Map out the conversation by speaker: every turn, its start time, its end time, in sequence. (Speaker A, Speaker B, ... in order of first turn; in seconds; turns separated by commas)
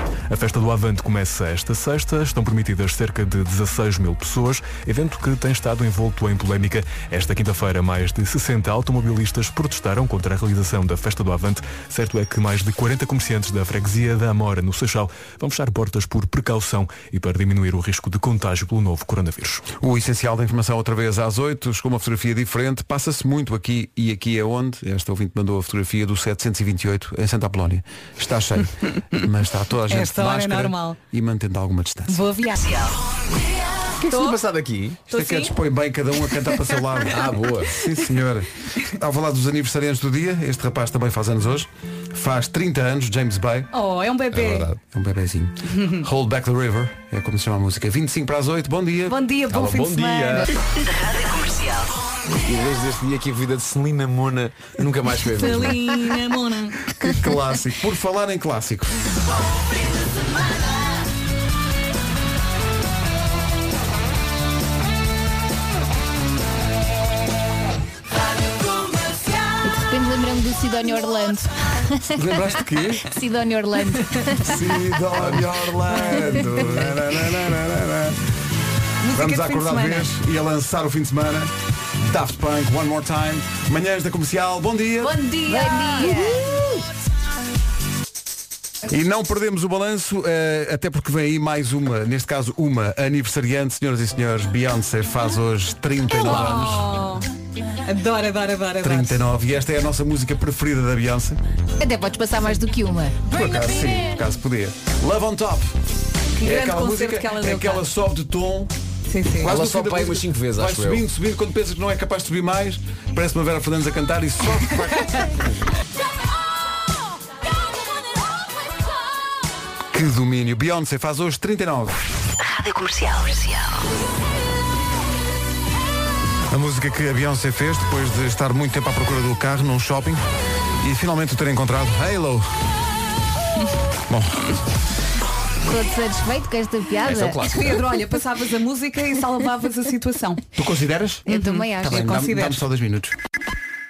Speaker A: 0.3-19.6, Speaker B: 19.8-32.2, Speaker C: 29.9-31.0, Speaker C: 32.1-32.6, Speaker D: 32.6-32.9, Speaker E: 34.0-35.0, Speaker C: 34.1-34.4, Speaker C: 35.1-35.5, Speaker B: 35.1-43.7, Speaker E: 37.1-37.7, Speaker C: 43.7-44.7, Speaker E: 44.3-44.8, Speaker B: 44.9-49.2, Speaker C: 45.7-46.0, Speaker C: 49.1-50.5, Speaker E: 49.5-50.5, Speaker D: 50.8-51.9, Speaker E: 52.3-55.9, Speaker C: 55.4-56.9, Speaker B: 57.0-59.0, Speaker F: 69.6-72.4, Speaker B: 72.1-73.0, Speaker F: 73.0-75.0, Speaker B: 74.4-78.2, Speaker C: 76.0-76.4, Speaker C: 79.0-80.1, Speaker B: 79.1-85.2, Speaker F: 85.0-86.6, Speaker C: 85.4-86.6, Speaker B: 88.9-97.0, Speaker C: 96.2-97.2, Speaker C: 97.8-99.2, Speaker B: 98.8-101.4, Speaker F: 101.8-103.2, Speaker B: 103.3-105.7, Speaker C: 103.3-104.0, Speaker C: 106.4-107.8, Speaker B: 106.4-108.7, Speaker C: 109.1-109.5, Speaker E: 109.4-111.0, Speaker B: 109.4-115.7, Speaker B: 119.9-122.0, Speaker D: 122.4-123.8, Speaker B: 126.5-130.2, Speaker B: 130.8-132.6, Speaker B: 134.1-134.6, Speaker F: 135.7-137.4, Speaker E: 137.0-137.8, Speaker C: 137.5-140.4, Speaker B: 140.6-141.2, Speaker C: 141.3-142.6, Speaker F: 141.3-142.0, Speaker B: 141.8-143.2